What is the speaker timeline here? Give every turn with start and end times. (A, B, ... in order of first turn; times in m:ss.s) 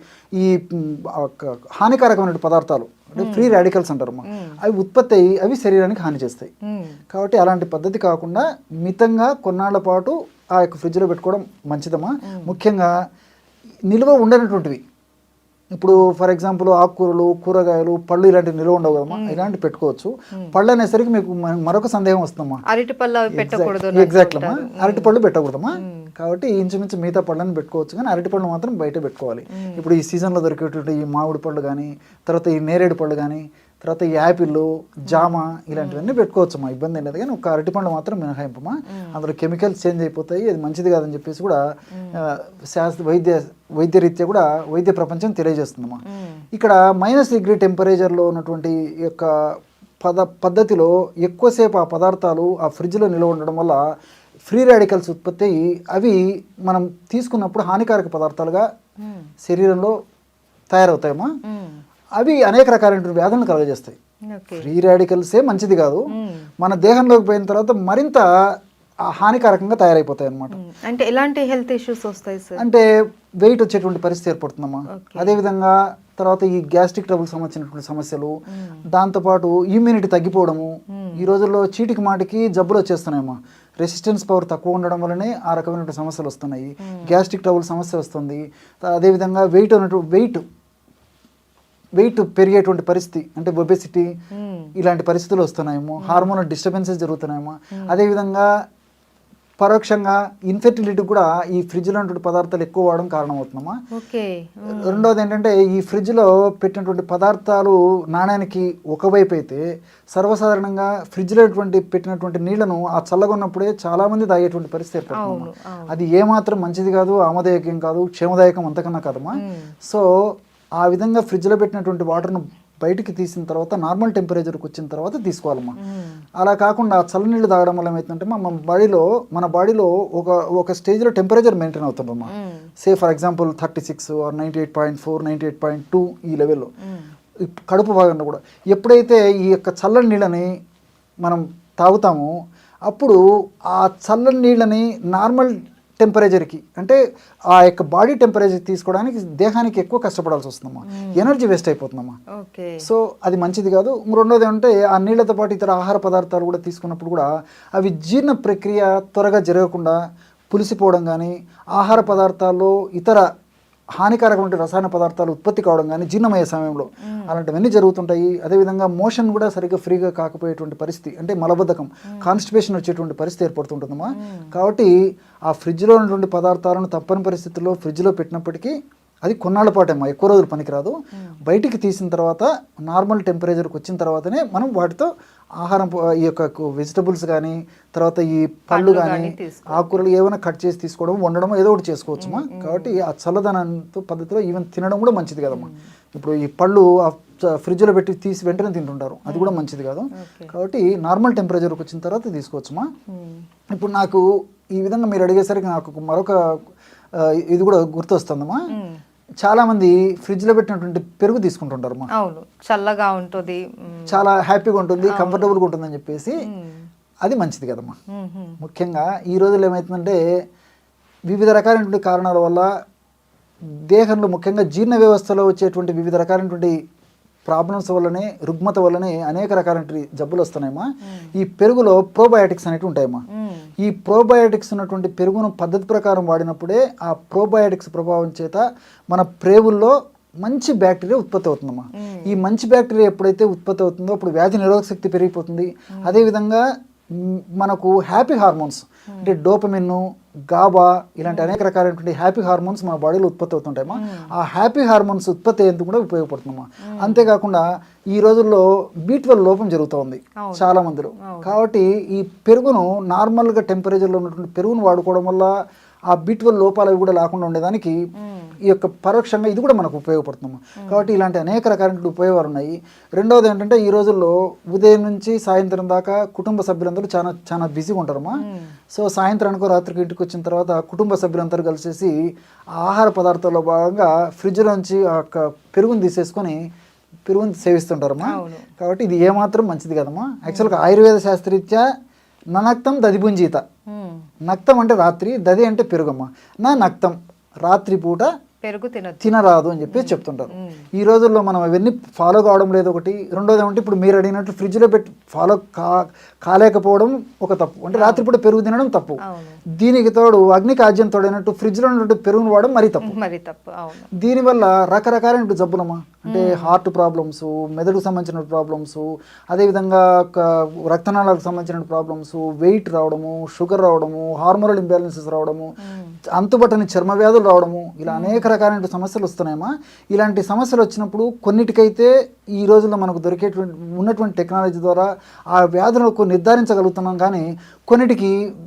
0:00.4-0:06.5 A
0:03.2-0:03.5 B
0:04.3-0:04.6 B
0:06.6-0:07.0 B
0:07.1-0:12.9 A
0:12.3-0:12.5 B
0:13.9-0:14.8 A
0:15.8-0:22.6 A
0:19.1-0:19.4 B
0:22.7-0:25.1 B
0:23.3-0:41.6 A
0:25.8-0:26.1 B
0:29.5-0:29.8 B
0:35.1-0:36.1 B
0:38.9-0:39.2 B
0:41.9-0:42.2 B
0:42.2-0:49.3 A
0:46.1-0:46.4 B
0:50.0-0:53.8 A
0:54.5-0:58.7 A
0:59.0-0:59.3 B
0:59.4-1:00.0 A
1:00.7-1:01.3 A
1:01.5-1:01.8 B
1:02.2-1:04.0 A
1:04.3-1:04.7 B
1:04.6-1:06.0 A
1:06.1-1:06.5 B
1:06.6-1:08.2 A
1:09.1-1:10.6 A
1:10.6-1:12.6 B
1:12.6-1:12.9 A
1:13.4-1:18.4 A
1:14.9-1:15.4 B
1:18.5-1:18.8 B
1:18.9-1:30.4 A
1:21.0-1:21.2 B
1:26.8-1:27.1 B
1:32.0-1:34.1 A
1:34.3-1:34.7 B
1:34.8-1:38.5 A
1:36.0-1:36.3 B
1:39.6-1:43.8 A
1:44.0-1:45.1 B
1:44.9-2:05.8 A
1:55.2-1:55.9 B
1:59.4-1:59.7 B
2:05.8-2:06.2 B
2:06.4-2:16.7 A
2:12.3-2:12.7 B
2:16.8-2:17.1 B
2:17.4-2:20.5 A
2:21.2-2:22.3 A
2:22.9-2:23.2 A
2:23.7-2:27.0 A
2:27.5-2:32.2 A
2:30.9-2:31.3 B
2:32.4-2:32.8 B
2:32.8-2:40.0 A
2:40.5-2:43.2 A
2:44.0-2:54.9 A
2:47.0-2:47.4 B
2:54.1-2:54.5 B
2:55.5-3:22.9 A
3:08.7-3:09.9 B
3:12.2-3:13.0 B
3:15.5-3:15.9 B
3:19.3-3:19.6 B
3:20.2-3:20.5 B
3:23.1-3:23.4 B
3:23.7-3:24.2 A
3:24.8-3:26.4 A
3:27.2-3:28.6 A
3:28.7-3:29.0 B
3:29.4-3:32.1 A
3:32.2-3:34.2 B
3:34.1-3:36.4 A
3:35.1-3:35.5 B
3:36.4-3:36.9 B
3:37.2-3:38.0 A
3:38.1-3:38.6 B
3:38.6-3:40.2 A
3:41.3-3:42.7 A
3:43.9-3:46.8 A
3:47.5-3:53.2 A
3:51.0-3:51.3 B
3:53.3-3:53.7 B
3:53.8-4:25.5 A
4:02.0-4:02.4 B
4:06.0-4:06.2 B
4:11.3-4:11.6 B
4:13.9-4:14.3 B
4:16.8-4:17.3 B
4:20.4-4:21.5 B
4:26.1-4:28.0 A
4:28.2-4:28.6 B
4:28.7-4:38.4 A
4:30.8-4:31.1 B
4:38.4-4:38.8 B
4:38.9-4:42.2 A
4:42.8-4:46.6 A
4:47.3-4:51.9 A
4:48.2-4:48.7 B
4:50.5-4:50.8 B
4:52.5-4:53.6 A
4:53.9-4:54.2 B
4:54.5-4:58.3 A
4:58.6-4:59.4 B
4:59.2-5:09.2 A
4:59.9-5:00.9 B
5:08.0-5:08.2 B
5:09.2-5:09.6 B
5:09.7-5:13.2 A
5:13.0-5:14.1 B
5:14.2-5:25.7 A
5:16.3-5:16.8 B
5:25.8-5:26.2 B
5:26.4-5:38.3 A
5:28.1-5:28.5 B